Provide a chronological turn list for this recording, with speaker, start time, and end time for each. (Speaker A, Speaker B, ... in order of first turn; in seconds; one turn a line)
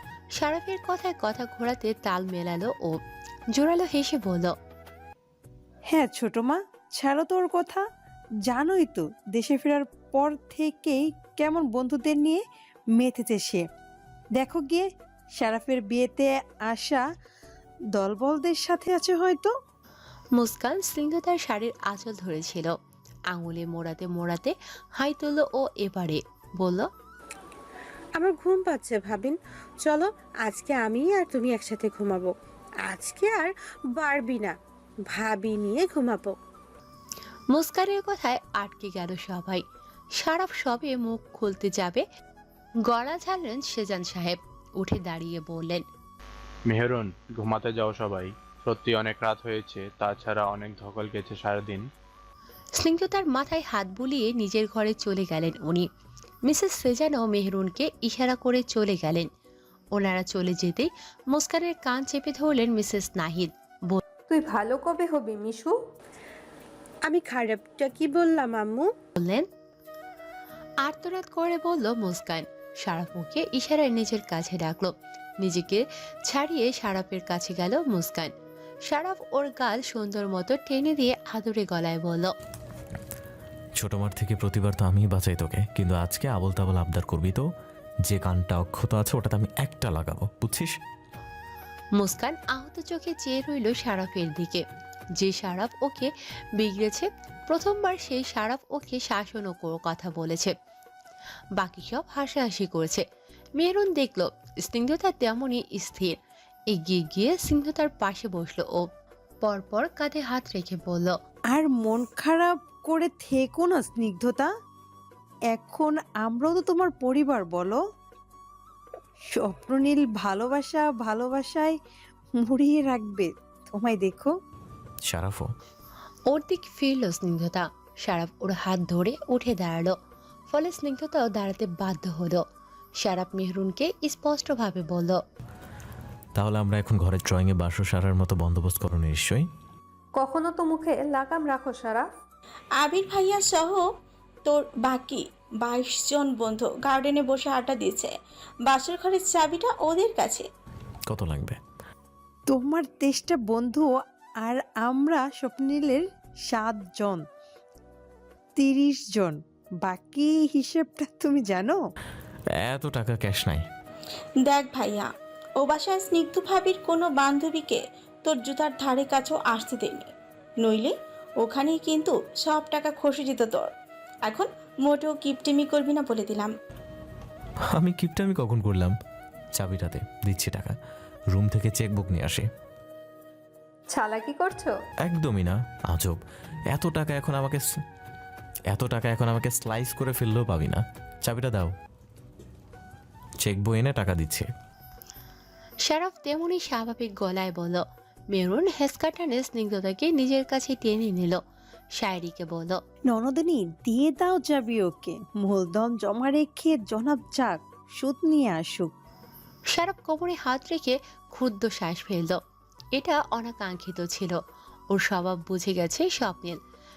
Speaker A: 0.4-3.0
Speaker A: 3.5-4.5
Speaker B: 5.9-7.8
Speaker B: 8.5-12.4
Speaker B: 12.9-13.7
Speaker B: 14.4-17.0
Speaker B: 17.9-19.5
Speaker A: 20.4-22.7
Speaker A: 23.3-26.9
Speaker C: 28.2-32.3
Speaker C: 32.9-34.5
Speaker C: 35.1-36.4
Speaker A: 37.5-39.6
Speaker A: 40.2-42.0
Speaker A: 42.9-45.8
Speaker D: 46.7-51.9
Speaker A: 52.8-55.9
Speaker A: 56.5-59.3
Speaker A: 60.0-64.0
Speaker E: 64.3-65.8
Speaker C: 67.1-68.9
Speaker A: 69.2-69.5
Speaker A: 70.8-78.3
Speaker A: 78.9-82.3
Speaker F: 83.8-87.4
Speaker F: 88.1-90.7
Speaker A: 92.0-94.6
Speaker A: 95.2-100.5
Speaker A: 101.6-103.0
Speaker A: 103.6-106.2
Speaker A: 106.7-108.8
Speaker A: 109.4-111.2
Speaker B: 111.5-114.5
Speaker B: 115.5-117.8
Speaker B: 119.3-121.8
Speaker B: 122.4-124.3
Speaker F: 125.1-125.5
Speaker A: 126.3-129.9
Speaker A: 130.5-132.4
Speaker A: 133.0-135.2
Speaker F: 136.4-139.4
Speaker E: 140.2-142.1
Speaker G: 142.8-143.8
Speaker G: 144.5-148.1
Speaker G: 148.7-150.5
Speaker F: 151.1-151.6
Speaker B: 152.5-157.2
Speaker B: 158.6-161.8
Speaker F: 162.6-163.7
Speaker G: 164.4-165.1
Speaker G: 165.6-170.1
Speaker G: 170.6-173.7
Speaker G: 174.3-176.5
Speaker F: 177.7-178.9
Speaker F: 179.6-180.7
Speaker F: 181.3-182.5
Speaker E: 183.9-184.8
Speaker F: 185.1-186.2
Speaker F: 186.7-187.6
Speaker F: 188.7-191.7
Speaker F: 193.4-194.5
Speaker A: 195.9-197.8
Speaker A: 198.3-201.4
Speaker A: 202.0-202.8
Speaker B: 203.1-208.9
Speaker A: 209.7-212.4
Speaker A: 213.0-214.4
Speaker A: 214.9-216.6